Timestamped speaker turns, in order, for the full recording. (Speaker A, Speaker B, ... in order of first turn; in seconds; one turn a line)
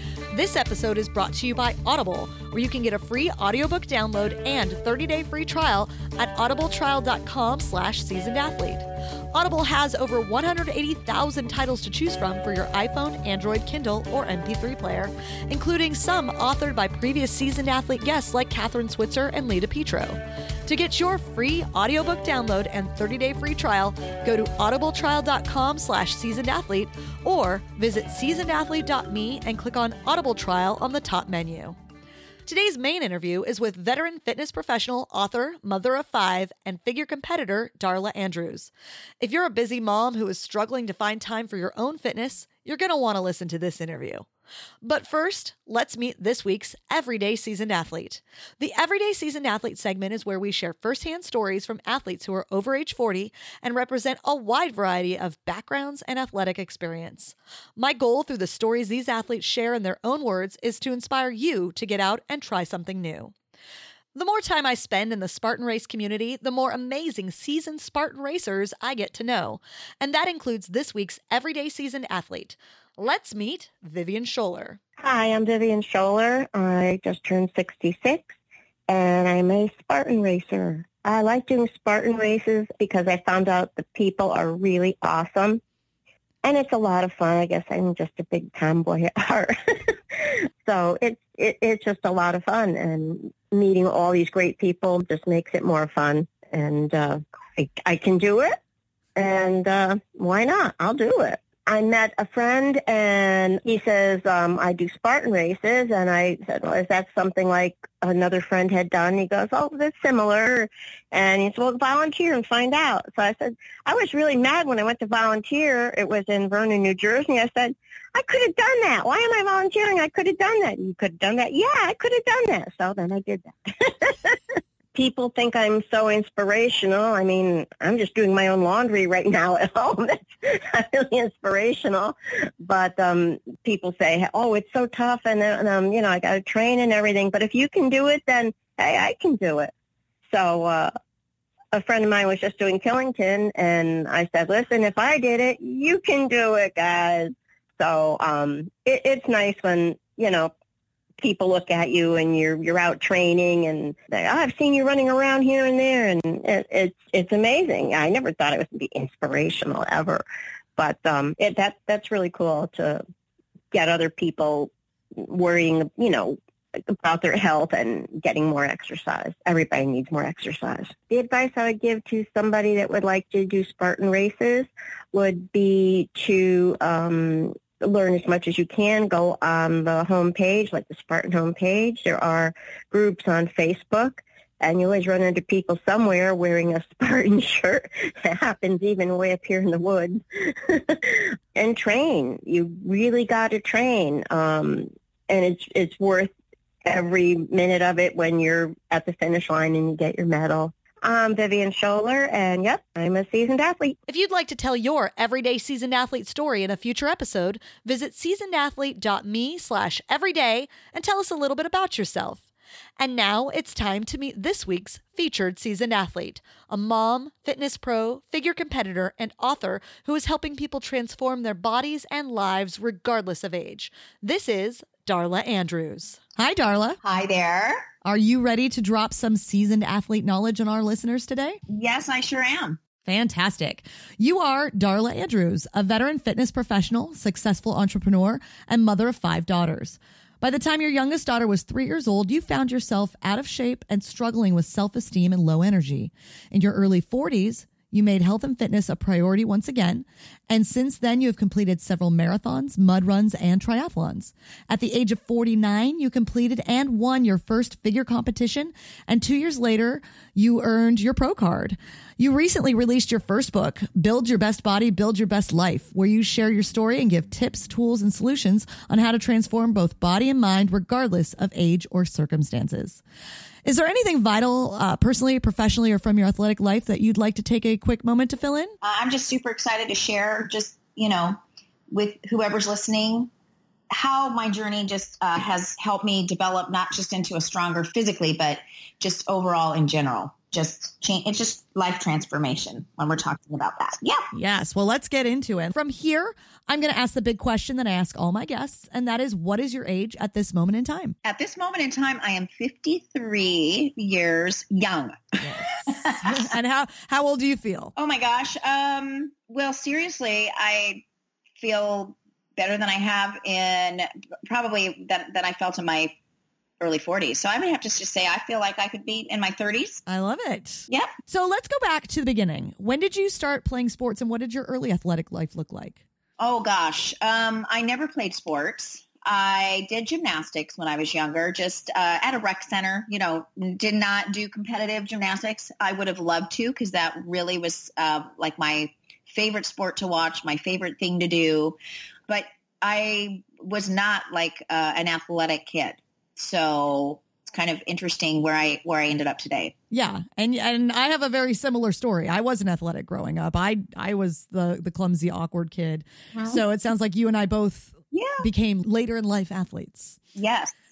Speaker A: 0.3-31.8
Speaker A: 32.5-44.3
Speaker A: 44.8-63.3
Speaker A: 64.2-74.8
Speaker B: 75.0-78.3
Speaker B: 78.9-85.6
Speaker B: 86.5-98.6
Speaker B: 99.2-139.7
Speaker B: 140.3-140.9
Speaker B: 141.7-150.5
Speaker B: 151.2-160.2
Speaker B: 160.8-163.0
Speaker B: 163.7-196.3
Speaker B: 196.8-204.0
Speaker A: 204.1-212.5
Speaker A: 213.0-227.0
Speaker C: 227.0-227.9
Speaker A: 228.0-231.6
Speaker C: 231.7-232.8
Speaker A: 233.1-273.0
Speaker A: 273.6-278.8
Speaker C: 278.8-281.4
Speaker C: 281.9-283.3
Speaker C: 283.9-294.3
Speaker A: 294.3-301.2
Speaker C: 301.2-306.5
Speaker A: 305.4-307.9
Speaker C: 308.0-311.0
Speaker C: 311.6-316.1
Speaker C: 316.8-320.0
Speaker A: 320.1-326.0
Speaker C: 326.4-349.7
Speaker A: 349.9-360.2
Speaker C: 356.3-356.6
Speaker C: 358.1-358.5
Speaker C: 360.4-360.7